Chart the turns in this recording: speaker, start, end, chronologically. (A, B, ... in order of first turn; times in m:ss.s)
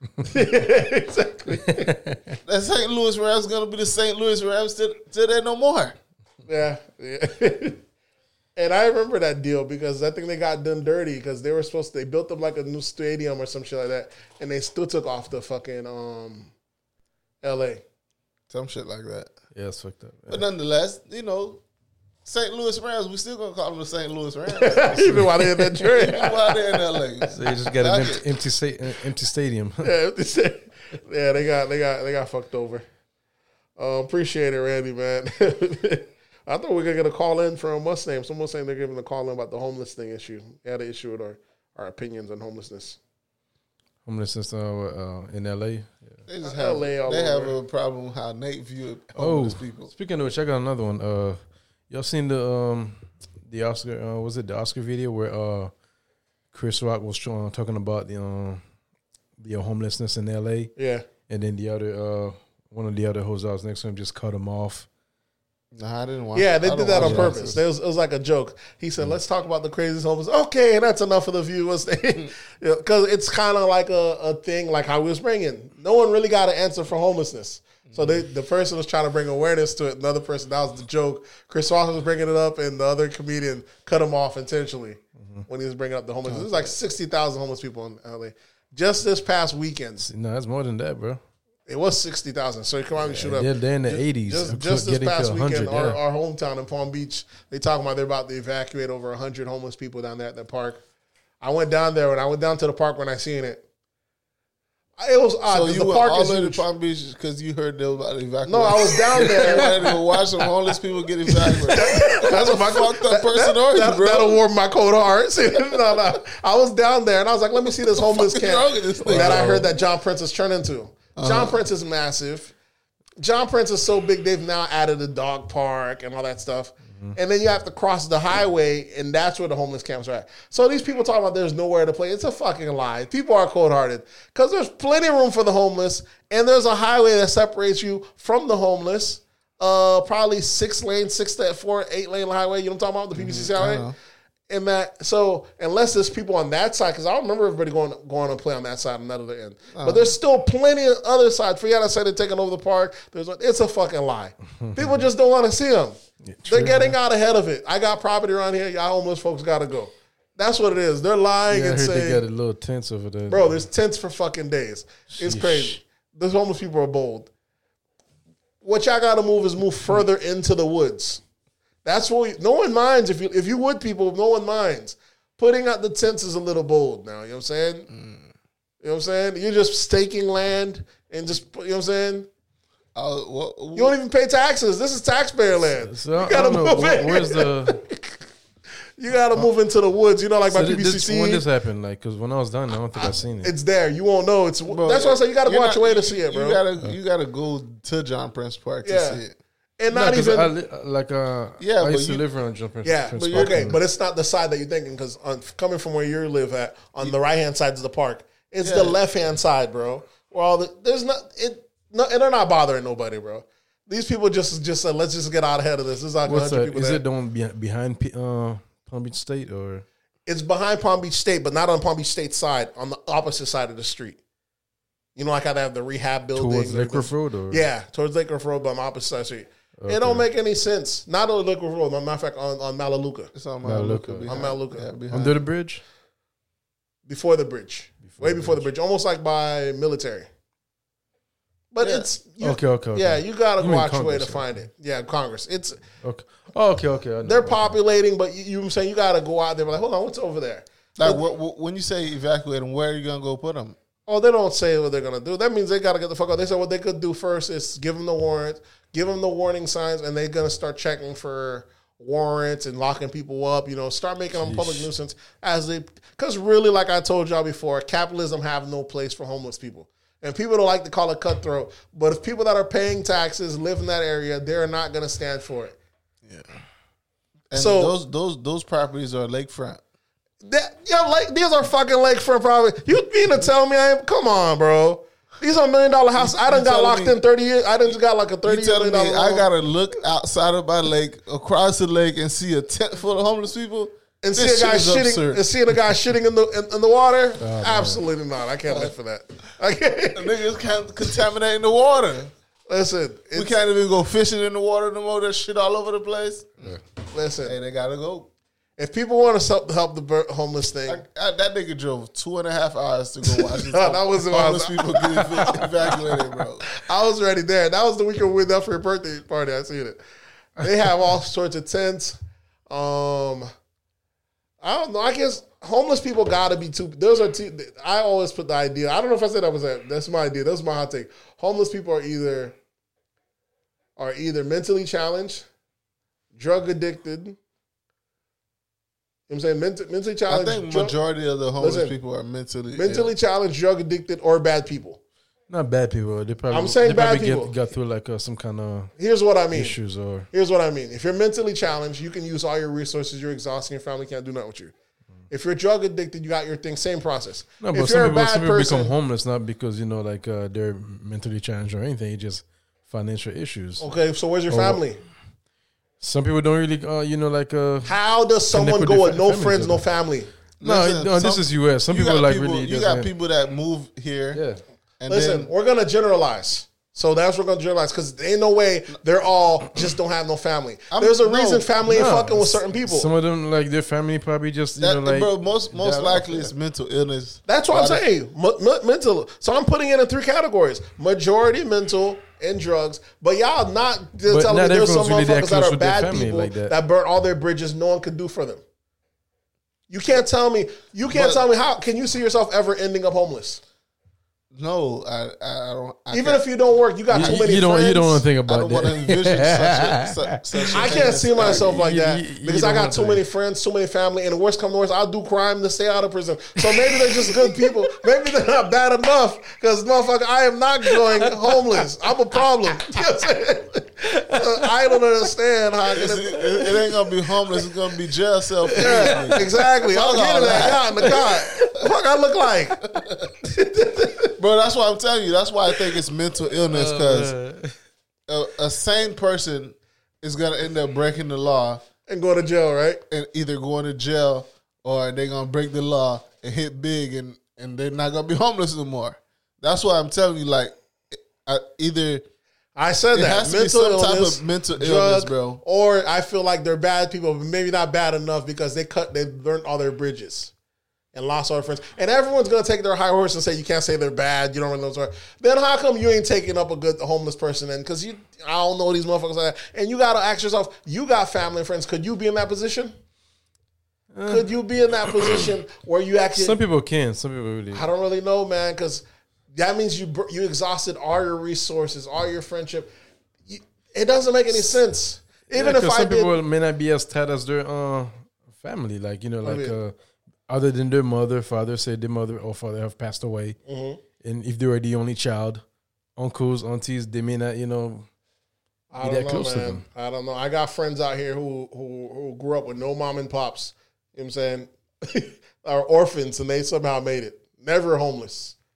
0:00.2-0:01.9 A
0:01.7-0:02.4 B
0:02.4-0:06.0 C
0:06.4-0:07.8 A
0:08.6-0:16.5 A
0:17.4-0:17.8 A
0:18.5-0:19.3 C
0:19.5-0:20.4 B
0:20.3-0:21.6 C
0:22.2-0:28.3 C
0:24.5-0:27.4 A
0:27.3-0:29.9 B
0:29.8-0:32.8 A
0:33.8-0:43.0 A
0:44.0-0:46.2 B
0:46.3-0:49.9 C
0:46.4-0:47.5 A
0:49.2-0:55.7 B
0:56.5-0:58.6 B
0:59.4-1:00.7 B
1:00.8-1:01.0 A
1:01.3-1:04.9 B
1:05.7-1:07.6 C
1:06.3-1:30.0 A
1:07.0-1:07.3 B
1:17.8-1:18.2 C
1:26.2-1:26.7 C
1:30.0-1:31.2 B
1:31.7-1:40.8 A
1:33.0-1:33.3 C
1:33.2-1:36.0 B
1:41.4-1:43.6 A
1:45.0-1:46.6 A
1:45.5-1:54.4 C
1:48.4-1:49.7 A
1:51.4-2:02.5 A
1:57.9-1:59.7 C
1:59.1-1:59.6 B
2:01.2-2:01.6 C
2:03.2-2:23.8 A
2:23.1-2:23.9 C
2:24.5-2:42.2 A
2:29.7-2:30.1 C
2:34.6-2:34.9 B
2:36.2-2:36.9 B
2:41.5-2:43.6 B
2:43.3-2:47.3 A
2:45.1-2:45.8 B
2:48.6-2:51.2 A
2:51.8-2:57.9 A
2:57.9-2:58.3 C
2:58.8-3:02.3 A
3:02.9-3:03.9 C
3:03.7-3:08.2 A
3:05.7-3:07.8 B
3:09.0-3:11.4 A
3:10.5-3:13.5 B
3:12.9-3:16.6 A
3:14.7-3:19.4 C
3:18.8-3:19.2 A
3:19.8-3:20.5 A
3:19.9-3:23.8 B
3:21.6-3:22.2 C
3:22.8-3:37.0 A
3:23.3-3:23.6 C
3:28.6-3:29.0 C
3:36.2-3:39.8 B
3:40.2-3:44.2 A
3:45.2-3:53.3 A
3:46.4-3:47.6 B
3:49.8-3:50.2 B
3:53.3-3:55.4 C
3:53.6-3:54.3 B
3:54.3-3:54.9 A
3:55.1-3:55.8 B
3:57.0-4:00.3 A
3:58.0-3:58.6 B
4:01.7-4:05.8 A
4:01.8-4:02.1 C
4:02.4-4:04.6 B
4:06.0-4:07.7 B
4:07.2-4:11.2 A
4:11.0-4:13.8 C
4:14.1-4:35.8 A
4:24.4-4:24.9 B
4:36.2-4:36.6 C
4:37.5-4:39.8 C
4:37.5-4:37.9 A
4:40.4-4:49.5 A
4:46.2-4:47.2 C
4:48.4-4:55.4 C
4:54.2-5:00.4 A
4:57.4-4:58.0 B
4:58.6-4:58.9 C
5:00.1-5:02.3 C
5:02.7-5:03.6 A
5:03.3-5:06.8 C
5:07.1-5:07.6 A
5:07.4-5:08.3 C
5:08.8-5:11.0 A
5:10.8-5:16.6 C
5:13.3-5:16.0 A
5:16.7-5:20.0 A
5:20.6-5:23.5 A
5:24.6-5:32.6 A
5:34.0-5:35.4 A
5:36.3-5:37.4 A
5:39.3-5:40.9 A
5:40.3-5:43.1 C
5:41.6-5:41.9 A
5:42.7-5:45.0 A
5:45.5-5:48.9 B
5:46.5-5:47.6 A
5:49.0-5:49.8 A
5:49.5-5:50.3 B
5:50.3-5:54.7 A
5:55.3-5:58.9 A
5:57.6-6:03.9 B
6:03.8-6:05.0 A
6:04.5-6:04.8 B
6:06.0-6:08.0 B
6:07.8-6:10.3 A
6:08.5-6:09.9 B
6:10.6-6:14.4 C
6:10.6-6:13.1 B
6:14.3-6:14.6 B
6:15.0-6:15.5 C
6:15.1-6:23.1 A
6:20.9-6:21.7 C
6:21.8-6:26.5 B
6:24.8-6:28.0 C
6:27.5-6:38.6 A
6:34.3-6:36.7 B
6:39.9-6:43.6 A
6:41.1-6:41.4 C
6:44.5-6:46.4 C
6:46.1-6:48.2 A
6:47.1-6:53.2 B
6:48.5-6:51.8 C
6:50.7-7:06.8 A
6:57.2-6:57.5 B
7:01.0-7:01.8 B
7:05.8-7:11.9 C
7:08.8-7:09.4 B
7:08.8-7:12.8 A
7:12.8-7:13.4 C
7:13.4-7:14.3 A
7:14.4-7:17.3 C
7:16.7-7:17.7 B
7:18.3-7:21.8 C
7:22.1-7:23.0 A
7:23.1-7:32.2 C
7:32.8-7:40.5 A
7:33.1-7:35.6 C
7:41.1-7:53.0 A
7:54.1-7:54.5 B
7:54.2-7:56.6 A
7:55.0-7:55.4 B
7:56.4-7:57.9 B
7:57.7-8:02.9 A
8:03.5-8:06.3 A
8:05.5-8:09.9 B
8:09.4-8:09.7 A
8:10.5-8:13.6 B
8:13.7-8:14.0 A
8:14.2-8:15.6 B
8:16.2-8:18.1 B
8:18.9-8:28.6 A
8:19.0-8:19.8 B